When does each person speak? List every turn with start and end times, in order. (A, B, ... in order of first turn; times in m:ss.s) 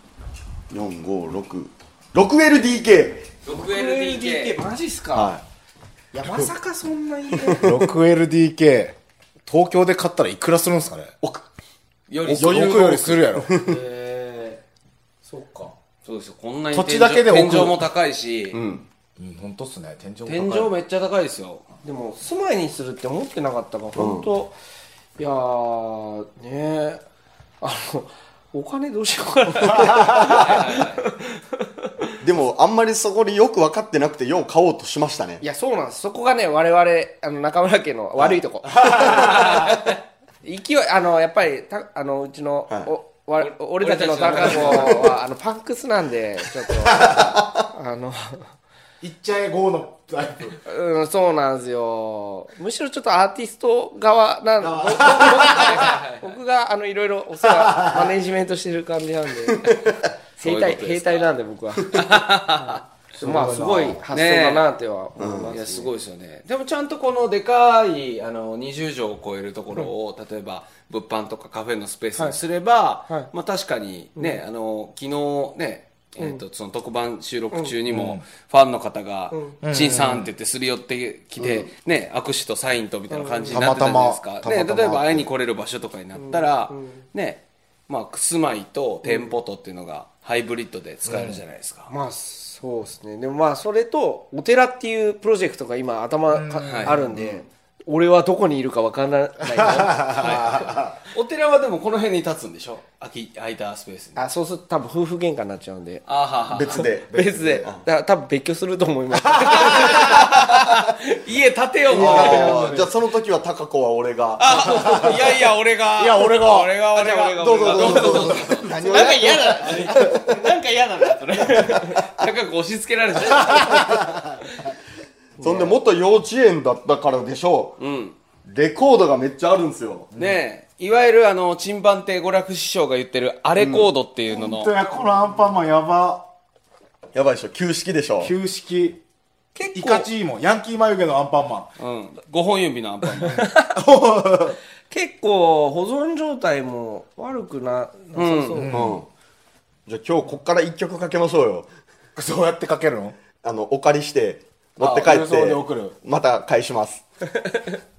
0:00.7-0:03.3 A
0:03.4-0:04.6 B
0:03.5-0:05.3 C
0:05.1-0:05.4 A
0:06.1-0:07.8 C
0:06.2-0:06.5 A
0:07.4-0:07.8 A
0:07.6-0:09.0 D
0:09.5-0:11.1 D
0:12.1-0:12.9 B
0:12.2-0:13.8 A
0:12.3-0:13.5 D
0:15.3-0:15.7 D
0:16.0-0:18.6 B
0:16.7-0:17.8 D
0:18.5-0:18.8 A
0:19.2-0:20.7 D
0:20.2-0:21.6 B
0:21.8-0:24.5 C
0:24.0-0:24.3 A
0:25.2-0:27.0 C
0:27.6-0:32.1 C
0:29.7-0:30.4 D
0:30.2-0:31.1 B
0:32.2-0:35.4 A
0:35.4-0:39.9 C
0:38.8-0:39.5 D
0:39.2-0:39.9 B
0:40.4-0:48.5 C
0:43.4-0:45.1 B
0:47.1-0:47.6 A
0:49.0-0:50.6 D
0:50.6-0:59.7 C
0:54.6-0:55.9 D
0:55.2-0:56.4 B
0:57.6-0:58.1 D
1:00.4-1:01.3 B
1:00.4-1:05.9 C
1:01.9-1:02.8 B
1:03.2-1:04.0 D
1:04.1-1:04.6 B
1:05.2-1:05.5 A
1:05.4-1:31.9 B
1:17.9-1:18.2 D
1:19.6-1:20.3 D
1:21.4-1:21.7 A
1:23.1-1:23.5 C
1:23.5-1:25.3 D
1:26.1-1:27.0 C
1:31.1-1:31.4 D
1:31.9-1:40.6 C
1:36.3-1:37.1 D
1:36.6-1:37.1 B
1:37.1-1:37.4 A
1:39.5-1:41.0 D
1:40.2-1:44.2 B
1:44.2-1:46.0 C
1:46.1-1:46.8 B
1:46.5-1:47.8 A
1:46.7-1:50.5 C
1:49.4-1:50.0 D
1:49.6-1:52.7 B
1:51.9-1:52.9 D
1:51.9-1:55.1 A
1:52.0-1:52.6 C
1:54.4-2:00.4 B
1:54.6-1:55.2 D
1:56.0-1:56.7 D
1:56.9-2:02.0 C
1:57.3-1:59.9 A
2:01.0-2:04.0 B
2:03.4-2:04.4 D
2:05.4-2:05.7 C
2:05.4-2:07.8 A
2:07.8-2:08.1 B
2:08.4-2:10.1 A
2:10.2-2:14.7 B
2:13.6-2:13.9 A
2:14.3-2:16.2 D
2:17.1-2:18.3 A
2:18.2-2:19.0 D
2:19.5-2:20.1 C
2:19.7-2:21.7 D
2:21.8-2:23.4 B
2:23.2-2:23.8 C
2:23.7-2:24.6 D
2:24.9-2:28.8 C
2:28.1-2:28.7 B
2:28.6-2:29.0 D
2:28.7-2:29.1 A
2:29.9-2:31.7 A
2:32.2-2:33.2 D
2:33.4-2:37.0 A
2:34.8-2:35.1 B
2:35.0-2:36.0 D
2:37.5-2:37.7 C